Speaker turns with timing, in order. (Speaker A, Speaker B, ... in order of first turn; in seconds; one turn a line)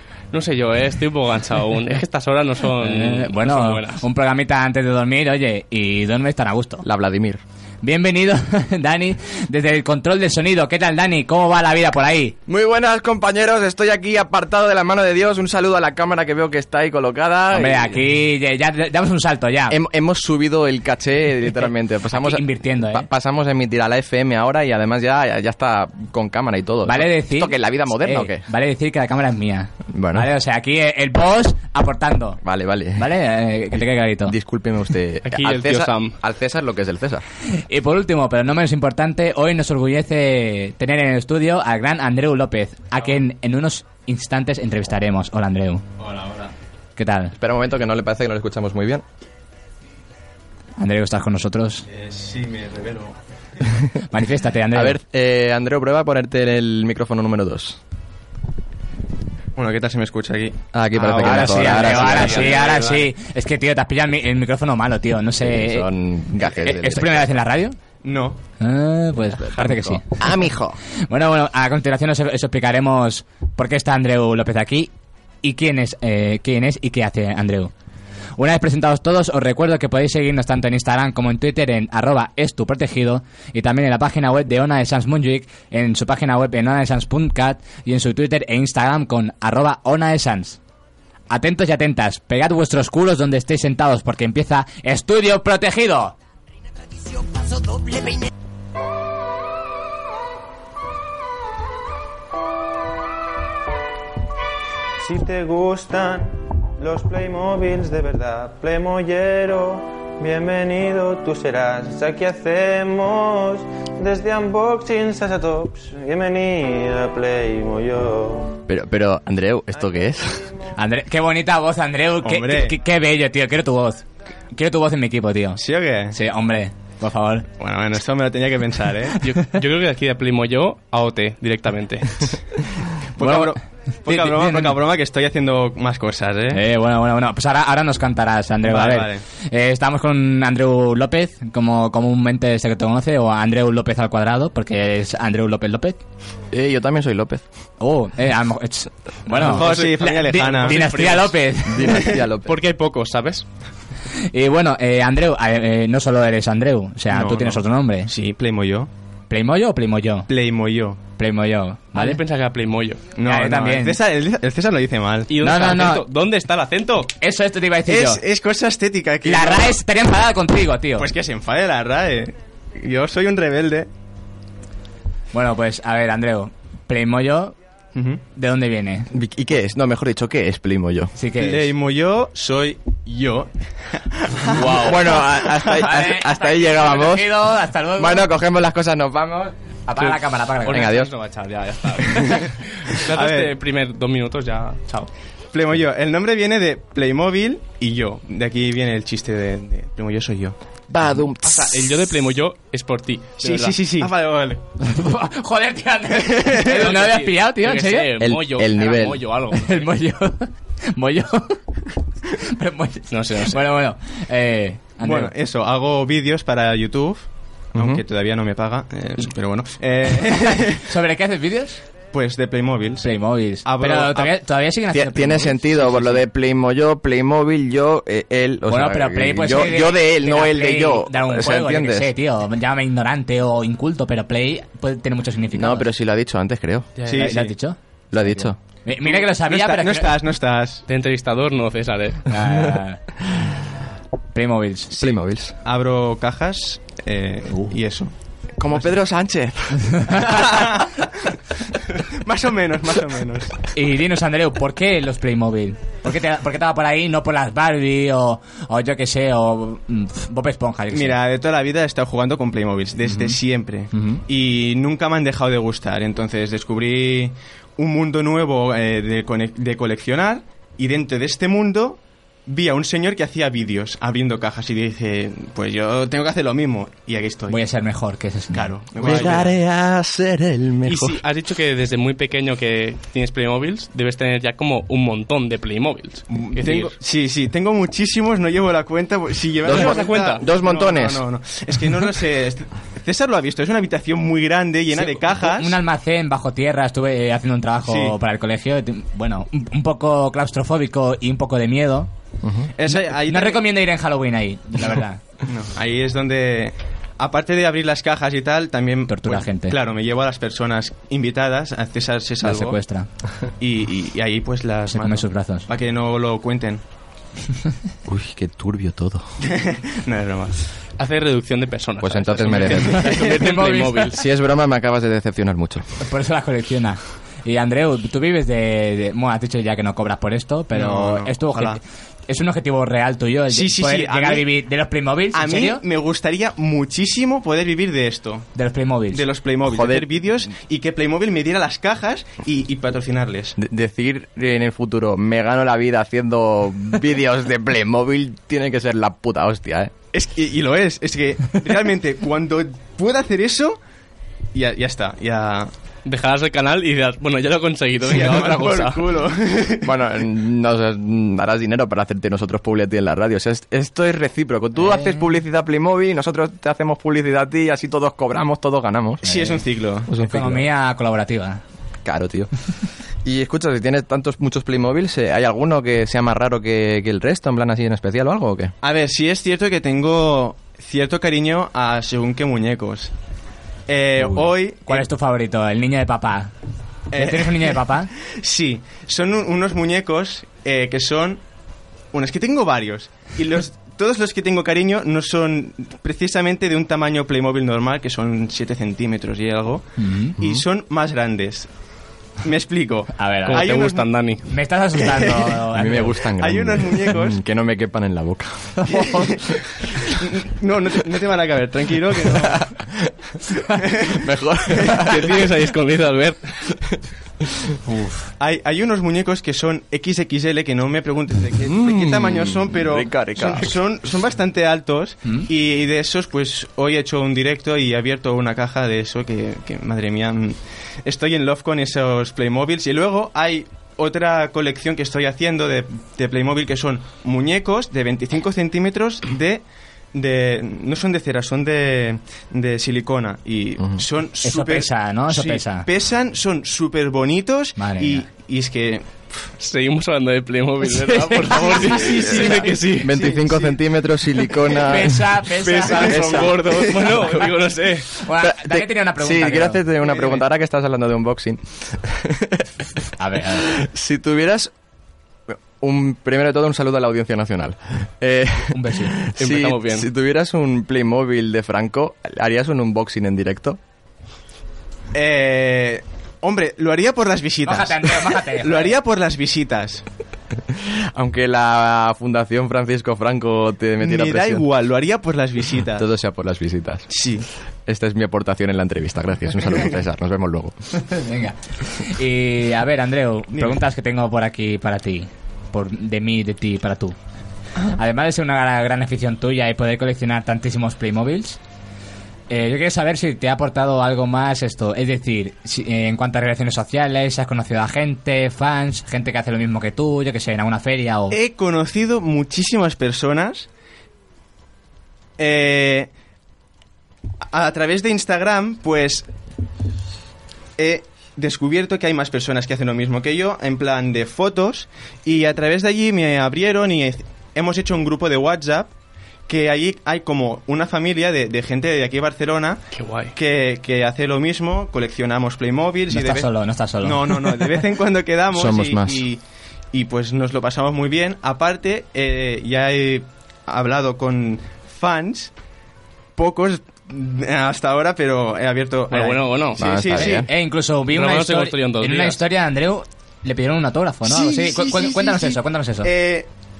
Speaker A: 0.3-4.0
Speaker B: 2.8-6.8
Speaker C: 6.8-7.4
Speaker B: 7.8-12.4
Speaker C: 12.5-18.0
Speaker B: 17.5-19.8
Speaker C: 19.7-28.4
Speaker B: 22.1-23.1
Speaker B: 26.8-32.4
Speaker C: 29.9-30.3
Speaker C: 32.4-33.1
Speaker B: 33.0-34.3
Speaker C: 34.2-37.2
Speaker A: 35.2-36.2
Speaker B: 37.5-45.8
Speaker D: 46.0-46.5
Speaker B: 47.0-47.3
Speaker C: 47.4-49.0
Speaker B: 50.8-51.9
Speaker D: 51.9-53.1
Speaker B: 54.1-55.0
Speaker C: 54.7-57.8
Speaker D: 59.5-63.1
Speaker C: 60.7-62.7
Speaker B: 61.1-65.9
Speaker C: 65.4-67.3
Speaker B: 66.5-67.8
Speaker D: 68.0-68.4
Speaker B: 68.6-70.2
Speaker C: 69.4-70.8
Speaker B: 71.1-74.9
Speaker B: 75.4-77.7
Speaker B: 78.3-90.6
Speaker B: 91.3-96.1
Speaker E: 105.0-118.6
Speaker C: 118.7-120.5
Speaker B: 120.8-125.6
Speaker D: 122.2-122.8
Speaker D: 125.6-126.2
Speaker B: 126.1-127.5
Speaker D: 127.6-129.2
Speaker A: 129.2-132.4
Speaker D: 133.2-136.6
Speaker B: 133.2-134.8
Speaker B: 136.5-146.0
Speaker D: 138.6-139.2
Speaker C: 146.5-147.4
Speaker B: 147.8-152.2
Speaker D: 149.3-151.0
Speaker A: 149.4-151.4
Speaker C: 151.7-152.6
Speaker A: 152.4-153.4
Speaker B: 154.3-158.1
Speaker D: 157.1-158.9
Speaker B: 159.3-160.3
Speaker D: 160.3-161.0
Speaker B: 161.2-162.2
Speaker A: 161.9-163.1
Speaker D: 163.2-165.3
Speaker B: 163.2-164.0
Speaker A: 165.3-167.1
Speaker B: 165.4-166.0
Speaker B: 167.2-168.2
Speaker D: 167.8-169.8
Speaker B: 169.2-171.1
Speaker D: 171.0-173.9
Speaker B: 175.3-177.5
Speaker D: 177.9-178.2
Speaker B: 178.3-179.1
Speaker C: 179.1-181.1
Speaker B: 181.2-181.7
Speaker D: 181.4-185.9
Speaker C: 184.5-187.3
Speaker B: 185.7-188.3
Speaker C: 187.9-189.5
Speaker B: 189.9-190.9
Speaker A: 190.0-195.1
Speaker C: 190.7-191.1
Speaker D: 193.1-193.5
Speaker D: 195.5-200.6
Speaker C: 200.9-201.9
Speaker A: 201.4-204.1
Speaker D: 203.4-204.6
Speaker B: 204.8-208.1
Speaker A: 206.6-209.9
Speaker C: 208.2-209.2
Speaker B: 209.6-211.6
Speaker B: 212.5-215.3
Speaker A: 213.1-213.6
Speaker D: 215.0-220.8
Speaker C: 217.7-218.0
Speaker B: 220.3-221.8
Speaker D: 222.1-223.1
Speaker B: 223.0-226.2
Speaker D: 223.6-224.3
Speaker C: 224.9-232.1
Speaker B: 228.7-235.9
Speaker C: 235.5-236.9
Speaker A: 237.0-237.4
Speaker D: 237.0-237.4
Speaker B: 237.2-240.1
Speaker C: 238.1-238.6
Speaker D: 239.1-240.8
Speaker A: 240.9-242.3
Speaker B: 242.3-243.0
Speaker B: 244.3-244.9
Speaker C: 244.9-245.6
Speaker D: 245.6-248.1
Speaker C: 248.6-250.1
Speaker B: 249.9-250.3
Speaker D: 250.3-251.4
Speaker D: 252.0-253.7
Speaker B: 253.7-261.2
Speaker D: 260.9-277.6
Speaker B: 263.0-263.4
Speaker B: 263.9-264.2
Speaker B: 277.5-279.4
Speaker D: 278.5-279.5
Speaker C: 279.0-281.2
Speaker A: 280.9-286.9
Speaker D: 286.3-295.8
Speaker C: 289.6-291.2
Speaker A: 289.6-290.4
Speaker B: 294.9-302.1
Speaker D: 297.8-298.1
Speaker C: 302.4-302.7
Speaker D: 302.8-303.6
Speaker B: 302.9-305.2
Speaker D: 305.4-312.8
Speaker B: 309.1-309.8
Speaker B: 312.4-313.1
Speaker D: 313.6-316.8
Speaker B: 314.9-315.6
Speaker C: 318.1-319.3
Speaker D: 319.4-320.6
Speaker A: 321.0-324.2
Speaker C: 322.0-323.1
Speaker D: 322.7-323.2
Speaker B: 323.0-324.1
Speaker C: 324.0-325.9
Speaker B: 326.0-335.8
Speaker D: 330.7-331.8
Speaker D: 333.5-334.5
Speaker D: 335.3-338.5
Speaker B: 338.5-339.2
Speaker D: 339.1-343.6
Speaker C: 339.6-340.1
Speaker C: 343.6-349.9
Speaker D: 350.1-353.8
Speaker D: 354.5-355.7
Speaker A: 356.0-359.1
Speaker D: 358.0-359.9
Speaker C: 359.8-369.3
Speaker B: 364.8-365.1
Speaker D: 369.2-370.1
Speaker B: 369.2-369.6
Speaker C: 370.1-370.6
Speaker B: 370.1-371.6
Speaker C: 372.0-372.5
Speaker C: 373.2-378.7
Speaker D: 378.8-383.1
Speaker D: 383.9-385.1
Speaker B: 384.2-386.5
Speaker D: 387.1-391.4
Speaker B: 387.1-388.1
Speaker D: 392.1-401.7
Speaker B: 400.0-400.4
Speaker D: 402.4-404.1
Speaker B: 403.2-403.7
Speaker A: 403.4-404.4
Speaker B: 404.5-406.3
Speaker D: 404.9-405.6
Speaker C: 405.7-409.4
Speaker D: 406.4-407.4
Speaker D: 408.9-412.6
Speaker C: 412.3-413.1
Speaker D: 413.9-414.2
Speaker C: 414.1-415.3
Speaker A: 415.0-416.7
Speaker B: 417.9-418.3
Speaker D: 418.4-439.6
Speaker C: 421.6-423.8
Speaker D: 440.1-449.1
Speaker B: 444.4-445.9
Speaker B: 447.8-448.2
Speaker A: 449.6-453.2
Speaker D: 451.4-453.8
Speaker C: 452.0-455.4
Speaker B: 454.8-456.5
Speaker A: 455.6-458.1
Speaker D: 455.7-456.5
Speaker C: 456.2-457.2
Speaker B: 458.2-459.9
Speaker C: 458.4-462.7
Speaker D: 460.1-460.4
Speaker B: 463.2-463.7
Speaker C: 463.6-464.7
Speaker C: 465.5-473.8
Speaker B: 468.7-469.1
Speaker A: 469.4-470.1
Speaker D: 475.1-480.0
Speaker B: 477.6-478.9
Speaker C: 480.8-484.6
Speaker D: 484.0-486.0
Speaker C: 485.9-487.1
Speaker D: 487.1-487.5
Speaker C: 487.9-490.8
Speaker B: 491.0-497.1
Speaker D: 493.5-493.8
Speaker B: 497.9-501.6
Speaker B: 502.5-511.4
Speaker D: 511.3-513.7
Speaker D: 515.4-516.1
Speaker D: 517.5-519.3
Speaker D: 520.8-528.9
Speaker D: 529.5-532.8
Speaker A: 532.9-533.3
Speaker D: 533.3-539.4
Speaker B: 536.1-537.7
Speaker C: 538.5-539.2
Speaker D: 539.9-545.5
Speaker D: 546.4-550.5
Speaker A: 549.1-549.8
Speaker C: 549.8-550.5
Speaker B: 550.1-556.1
Speaker A: 551.1-552.4
Speaker D: 554.2-556.5